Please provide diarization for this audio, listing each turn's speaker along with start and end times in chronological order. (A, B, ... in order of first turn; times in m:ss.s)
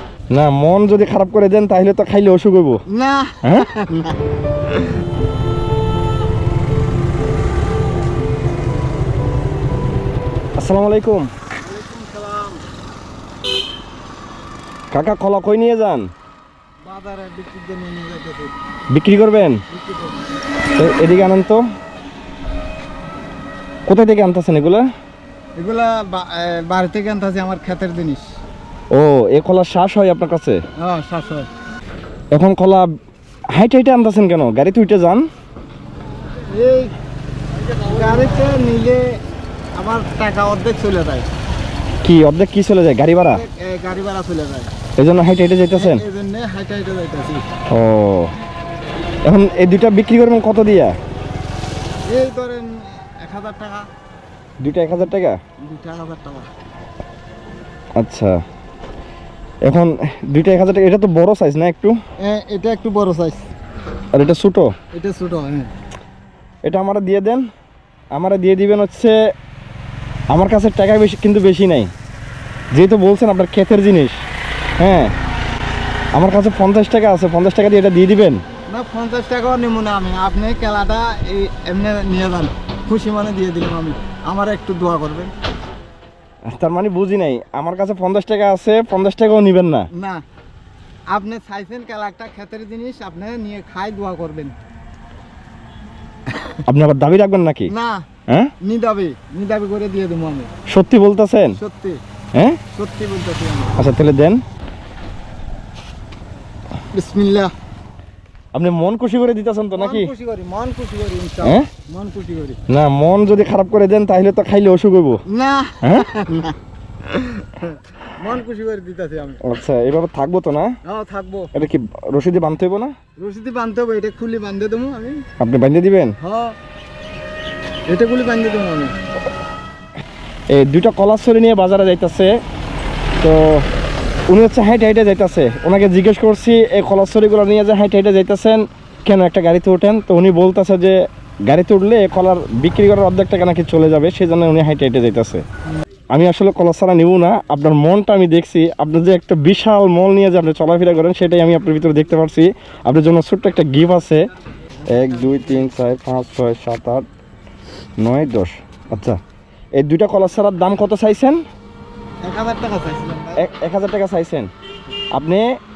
0:00.3-0:02.8 A
0:02.9-0:04.2 B
0:10.6-0:11.3 A
0:11.6-0:12.6 B
0:14.9-0:16.1 A
0:16.8-0:18.5 B
0:18.9-0:19.6 A
0:19.7-0:20.2 B
0:20.7-0:21.6 A
0:23.9-0:24.9 A
0:25.6-0:28.3 B
0:28.9-0:30.6 A
0:30.8-0:31.5 B
0:32.3-0:32.9 A
0:33.5-0:35.2 A
0:36.5-0:37.0 B
0:37.8-0:39.2 B
0:39.8-0:41.3 B
0:42.0-0:43.4 A
0:43.3-0:44.7 B
0:45.0-0:46.0 A
0:45.7-0:47.4 B
0:47.7-0:48.3 A
0:49.2-0:51.0 A
0:52.1-0:53.9 B
0:54.6-0:55.4 A
0:55.6-0:56.5 B
0:58.0-0:58.4 A
0:59.6-1:02.0 A
1:02.2-1:03.5 B
1:04.1-1:04.7 A
1:04.9-1:05.7 B
1:06.6-1:07.5 A
1:08.1-1:09.2 A
1:10.3-1:11.9 A
1:12.7-1:14.2 A
1:14.8-1:15.1 A
1:16.1-1:18.4 A
1:18.7-1:25.3 B
1:26.5-1:29.9 A
1:30.0-1:30.2 B
1:31.1-1:34.6 B
1:36.3-1:36.6 B
1:36.7-1:37.7 A
1:37.7-1:38.1 B
1:38.3-1:38.5 A
1:38.6-1:40.5 B
1:40.7-1:41.6 A
1:41.5-1:42.0 B
1:42.4-1:42.6 A
1:42.7-1:43.8 B
1:43.8-1:44.4 A
1:46.9-1:47.5 B
1:48.5-1:50.1 A
1:49.7-1:52.6 B
1:51.4-1:51.7 A
1:52.7-1:55.2 A
1:55.3-1:59.4 B
1:59.4-2:00.8 A
2:00.8-2:01.5 B
2:01.5-2:03.0 A
2:03.2-2:05.2 B
2:05.4-2:06.1 A
2:06.2-2:06.6 B
2:07.9-2:09.0 B
2:10.5-2:12.3 A
2:13.2-2:13.6 A
2:14.3-2:25.4 A
2:26.1-2:34.3 A
2:34.8-2:35.7 B
2:34.9-2:37.1 A
2:38.0-2:39.2 A
2:39.8-2:41.4 A
2:42.2-2:43.4 B
2:43.4-2:44.5 A
2:45.2-2:45.4 A